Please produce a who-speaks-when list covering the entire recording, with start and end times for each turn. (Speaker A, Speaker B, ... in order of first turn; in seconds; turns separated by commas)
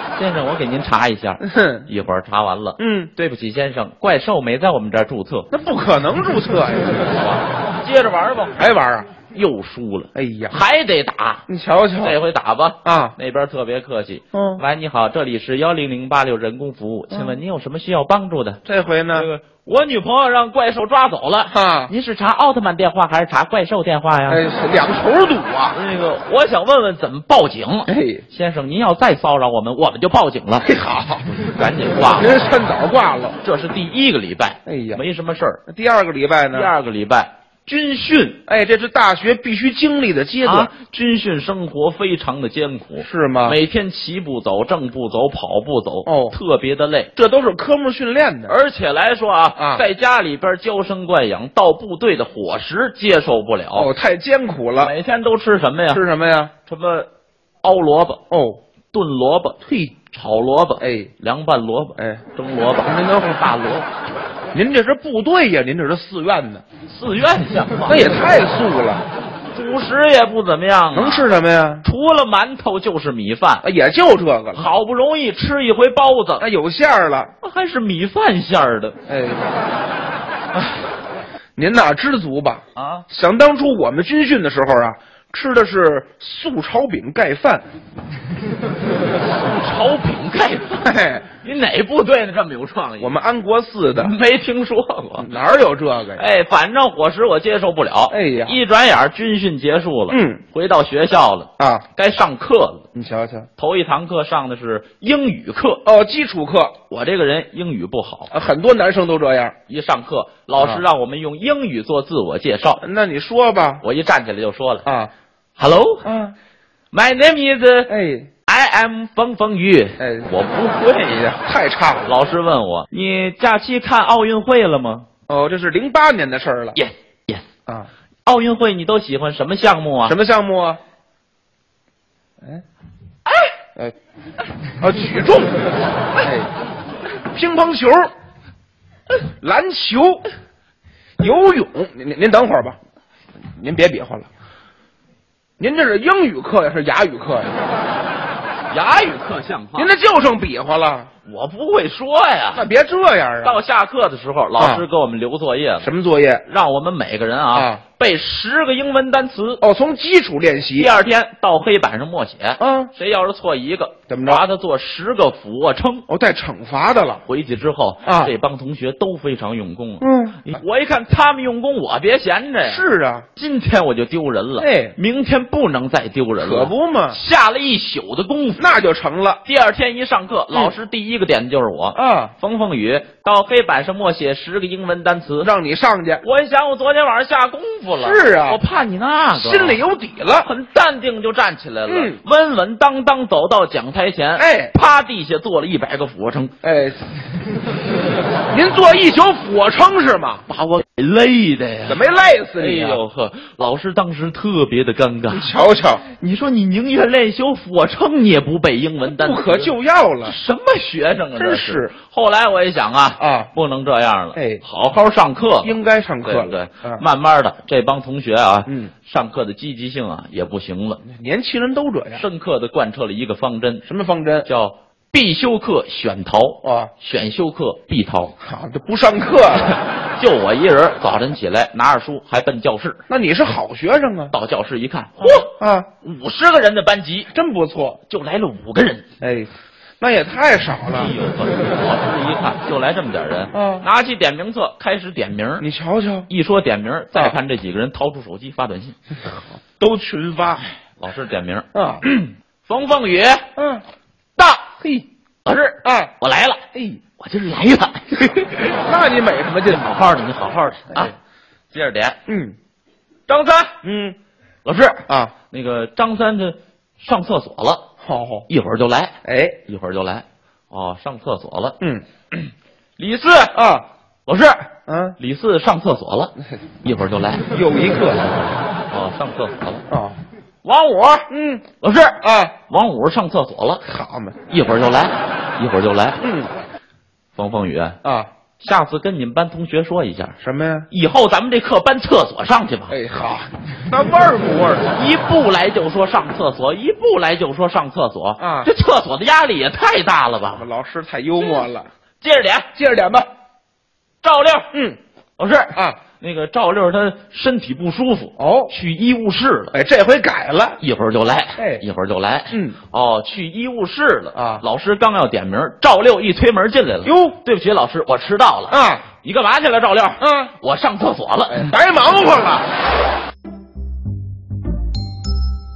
Speaker A: 0.1-5.5, Speaker B: 1.4-1.9, Speaker B: 2.8-3.1, Speaker B: 5.5-7.1, Speaker A: 7.1-11.5, Speaker B: 8.6-9.1, Speaker B: 10.2-10.6, Speaker B: 11.5-12.2, Speaker A: 12.0-18.6, Speaker B: 12.8-13.2, Speaker B: 14.3-14.6, Speaker B: 18.6-19.3, Speaker A: 19.1-24.4, Speaker B: 21.5-21.9, Speaker B: 24.3-25.8, Speaker A: 25.7-30.7, Speaker B: 27.9-28.2, Speaker B: 30.6-31.3, Speaker A: 31.3-32.3, Speaker B: 32.1-33.4, Speaker A: 33.4-35.6, Speaker B: 34.6-35.0, Speaker B: 35.7-36.8, Speaker A: 36.5-38.4, Speaker B: 38.5-40.7, Speaker A: 40.4-47.1, Speaker B: 43.0-43.6, Speaker B: 46.0-46.4, Speaker B: 47.2-48.6, Speaker A: 48.5-53.9, Speaker B: 49.6-49.9, Speaker B: 53.7-55.0, Speaker A: 54.8-56.0, Speaker B: 55.9-56.5, Speaker A: 56.7-57.1, Speaker A: 57.6-58.2, Speaker B: 58.3-58.6, Speaker A: 58.9-59.6, Speaker B: 59.7-60.0, Speaker A: 60.1-63.9, Speaker B: 60.8-61.1, Speaker B: 62.0-62.2, Speaker B: 62.8-63.6, Speaker B: 64.5-66.6, Speaker A: 66.9-68.2, Speaker B: 67.9-69.1, Speaker A: 69.5-71.3, Speaker B: 70.9-71.9, Speaker A: 71.8-73.7, Speaker B: 73.6-74.7, Speaker A: 74.5-76.5, Speaker B: 76.4-77.3, Speaker A: 77.4-79.0, Speaker B: 79.1-79.5, Speaker B: 81.6-87.7, Speaker A: 82.8-83.1, Speaker A: 89.2-93.2, Speaker B: 90.8-91.3, Speaker B: 93.0-94.1, Speaker A: 94.0-95.3, Speaker B: 95.2-96.2, Speaker A: 96.2-102.9, Speaker B: 98.1-98.6, Speaker B: 100.1-100.4, Speaker B: 101.6-101.8, Speaker B: 102.9-103.5, Speaker A: 103.6-105.8, Speaker B: 105.8-106.8, Speaker A: 106.9-108.3, Speaker B: 108.3-109.5, Speaker A: 109.7-112.8, Speaker B: 110.6-110.8, Speaker B: 112.8-113.8, Speaker A: 113.8-114.9, Speaker B: 114.8-115.1, Speaker A: 115.6-116.1, Speaker B: 116.0-116.3, Speaker A: 116.9-117.9, Speaker B: 117.9-118.3, Speaker A: 118.5-121.4, Speaker B: 120.0-120.3, Speaker B: 121.3-122.1, Speaker A: 122.0-125.1, Speaker B: 125.3-126.8, Speaker A: 126.8-127.5, Speaker A: 128.2-130.2, Speaker B: 130.0-130.8, Speaker B: 134.8-135.5, Speaker B: 136.2-136.5, Speaker B: 137.3-138.1, Speaker B: 139.4-140.3, Speaker B: 141.2-142.8, Speaker B: 143.5-144.3, Speaker B: 145.6-147.6, Speaker A: 148.7-149.9, Speaker B: 149.8-151.1, Speaker A: 151.2-152.7, Speaker B: 152.5-153.6, Speaker A: 153.4-155.9, Speaker B: 154.6-154.8, Speaker B: 155.8-156.4, Speaker A: 156.4-159.6, Speaker B: 157.5-157.8, Speaker B: 159.6-161.0, Speaker A: 160.8-166.1, Speaker B: 162.6-162.9, Speaker B: 164.1-164.4, Speaker B: 166.1-167.2, Speaker A: 167.2-172.8, Speaker B: 168.0-168.3, Speaker B: 170.0-170.6, Speaker B: 172.6-173.3, Speaker A: 173.4-178.7, Speaker B: 174.6-175.0, Speaker B: 176.4-177.2, Speaker B: 178.6-179.4, Speaker A: 179.4-185.5, Speaker B: 181.9-182.3, Speaker B: 185.4-186.2, Speaker A: 186.2-189.8, Speaker B: 187.9-188.6, Speaker B: 189.3-190.5, Speaker A: 190.4-196.6, Speaker B: 191.9-192.2, Speaker B: 194.3-194.7, Speaker B: 196.6-197.2, Speaker B: 198.5-200.5, Speaker A: 200.5-205.5, Speaker B: 201.9-203.0, Speaker B: 205.3-206.0, Speaker A: 206.1-215.7, Speaker B: 209.1-210.4, Speaker B: 211.3-211.9, Speaker B: 213.2-213.5, Speaker B: 214.3-214.6, Speaker B: 215.6-217.0, Speaker A: 216.2-221.0, Speaker B: 218.7-218.9, Speaker B: 221.1-222.3, Speaker A: 222.1-223.8, Speaker B: 223.8-224.5, Speaker A: 224.4-228.3, Speaker B: 226.6-226.9, Speaker B: 228.4-229.8, Speaker A: 229.7-233.0, Speaker B: 233.1-234.3, Speaker A: 234.3-235.5, Speaker B: 235.2-235.9, Speaker A: 236.0-237.3, Speaker B: 237.3-238.0, Speaker A: 238.1-239.1, Speaker B: 239.2-241.1, Speaker A: 240.9-245.7, Speaker B: 243.5-243.9, Speaker B: 245.6-246.3, Speaker A: 246.3-249.0, Speaker B: 249.8-250.6, Speaker A: 251.0-253.5, Speaker B: 251.7-252.1, Speaker B: 253.6-253.8, Speaker A: 254.4-254.7, Speaker B: 254.8-255.1, Speaker A: 255.4-256.6, Speaker B: 255.8-256.1, Speaker B: 256.7-257.0, Speaker A: 257.2-258.7, Speaker B: 258.7-259.9, Speaker A: 259.7-261.1, Speaker A: 261.7-262.2, Speaker B: 262.3-262.6, Speaker A: 263.3-263.8, Speaker B: 263.8-264.2, Speaker A: 264.6-267.9, Speaker B: 265.1-265.3, Speaker B: 268.0-268.5, Speaker A: 268.5-269.2, Speaker B: 269.2-269.6, Speaker A: 269.7-271.8, Speaker A: 273.0-273.6, Speaker B: 273.5-273.9, Speaker A: 274.3-277.5, Speaker B: 274.9-275.2, Speaker B: 277.5-278.3, Speaker A: 278.9-279.8, Speaker B: 279.9-280.2, Speaker A: 280.6-281.3, Speaker B: 281.3-281.6, Speaker A: 281.8-283.8, Speaker B: 282.2-282.5, Speaker B: 283.8-284.4, Speaker A: 284.5-286.2, Speaker B: 286.2-286.5, Speaker A: 287.4-288.0, Speaker B: 288.0-288.3, Speaker A: 288.6-290.4, Speaker B: 290.4-290.9, Speaker A: 290.9-293.0, Speaker B: 292.9-294.9, Speaker A: 294.8-300.6, Speaker B: 298.4-298.7, Speaker B: 300.5-301.9, Speaker A: 302.2-302.7, Speaker B: 302.8-303.3, Speaker A: 304.2-304.7, Speaker B: 304.7-305.0, Speaker A: 305.4-309.7, Speaker B: 305.7-306.0, Speaker B: 308.4-308.7, Speaker B: 309.7-310.8, Speaker A: 310.8-321.7, Speaker B: 311.6-311.8, Speaker B: 312.5-312.8, Speaker B: 314.4-314.6, Speaker B: 317.0-317.4, Speaker B: 318.7-319.1, Speaker B: 320.2-320.6, Speaker B: 321.5-322.7